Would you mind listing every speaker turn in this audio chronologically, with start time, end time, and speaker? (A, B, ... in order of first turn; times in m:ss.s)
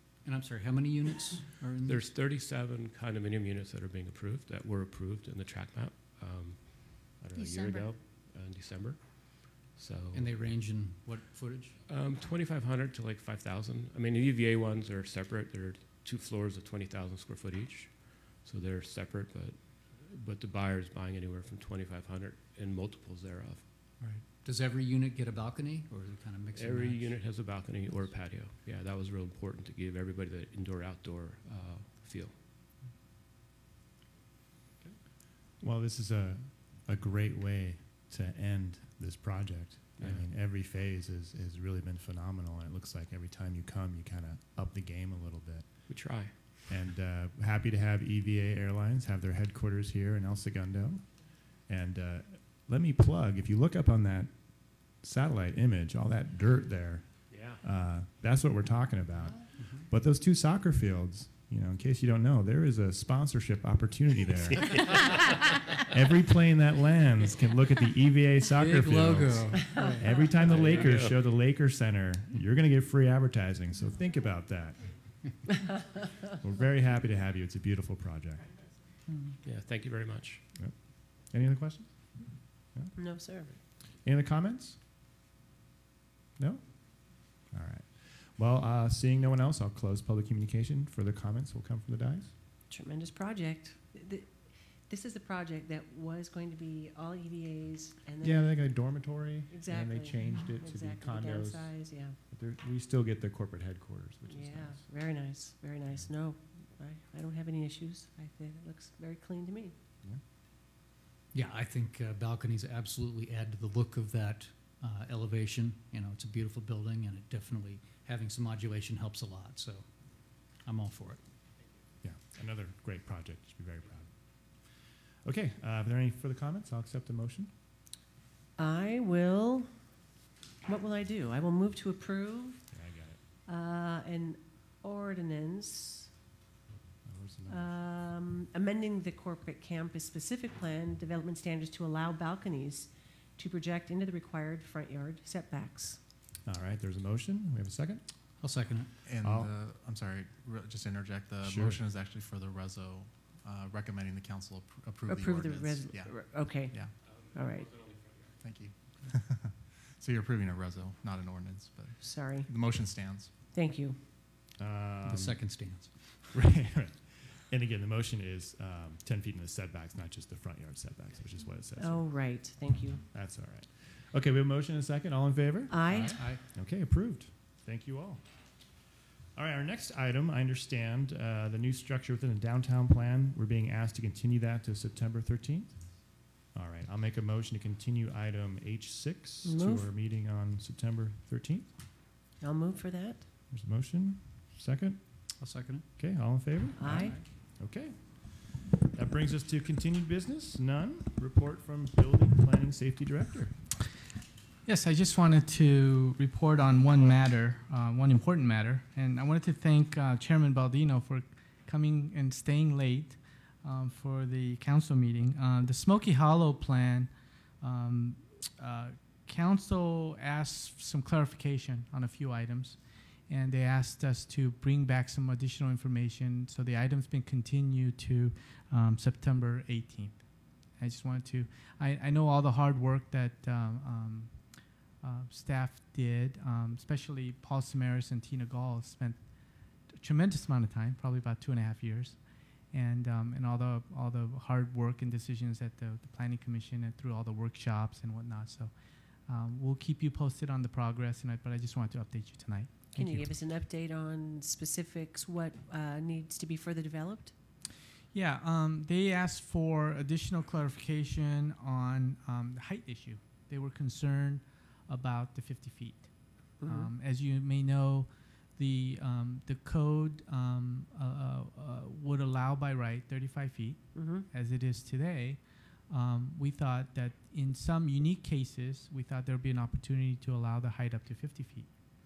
0:00.2-0:02.0 A
0:01.8-0:10.3 B
0:10.1-0:11.8 A
0:11.9-0:23.6 B
0:24.0-0:27.2 A
0:26.5-0:32.3 B
0:35.6-1:04.9 C
0:40.0-0:40.3 B
0:45.9-0:46.3 B
0:57.3-0:57.6 B
1:04.6-1:05.2 B
1:05.8-1:15.0 C
1:08.6-1:10.6 A
1:09.8-1:10.0 D
1:10.4-1:11.2 B
1:16.2-1:18.5 C
1:19.4-1:20.4 B
1:20.6-1:22.9 C
1:22.9-1:23.6 D
1:24.0-1:24.8 C
1:26.4-1:32.3 C
1:32.7-1:34.3 D
1:34.9-1:38.6 D
1:38.2-1:44.8 C
1:39.5-1:42.1 D
1:44.3-1:49.7 D
1:51.3-1:59.8 A
2:00.6-2:01.2 A
2:02.0-2:04.1 C
2:05.2-2:07.5 C
2:08.6-2:09.7 D
2:10.6-2:12.6 D
2:12.7-2:13.2 C
2:13.5-2:16.1 D
2:17.0-2:17.7 C
2:17.5-2:26.0 D
2:26.4-2:28.0 C
2:28.4-2:28.9 A
2:29.0-2:36.9 E
2:29.2-2:29.5 C
2:31.4-2:31.8 C
2:35.1-2:36.8 D
2:37.3-2:37.7 D
2:38.4-2:43.3 E
2:42.0-2:42.5 D
2:43.5-2:44.0 D
2:44.6-2:45.4 C
2:45.0-2:45.9 A
2:46.3-2:52.3 C
2:51.8-2:53.0 D
2:53.1-2:58.2 C
2:55.7-2:56.3 D
2:55.9-2:56.4 A
2:59.3-3:11.7 C
3:09.4-3:09.9 D
3:12.4-3:13.2 D
3:13.5-3:15.3 C
3:15.4-3:15.8 A
3:16.0-3:23.5 C
3:16.8-3:17.2 D
3:24.6-3:37.1 F
3:37.6-3:50.2 F
3:50.8-3:54.3 F
3:55.0-3:59.2 F
3:59.9-4:02.2 F
4:02.7-4:08.7 F
4:09.3-4:13.3 F
4:12.9-4:17.3 D
4:18.1-4:26.1 F
4:26.6-4:26.9 D
4:26.6-4:41.7 F
4:33.9-4:34.3 D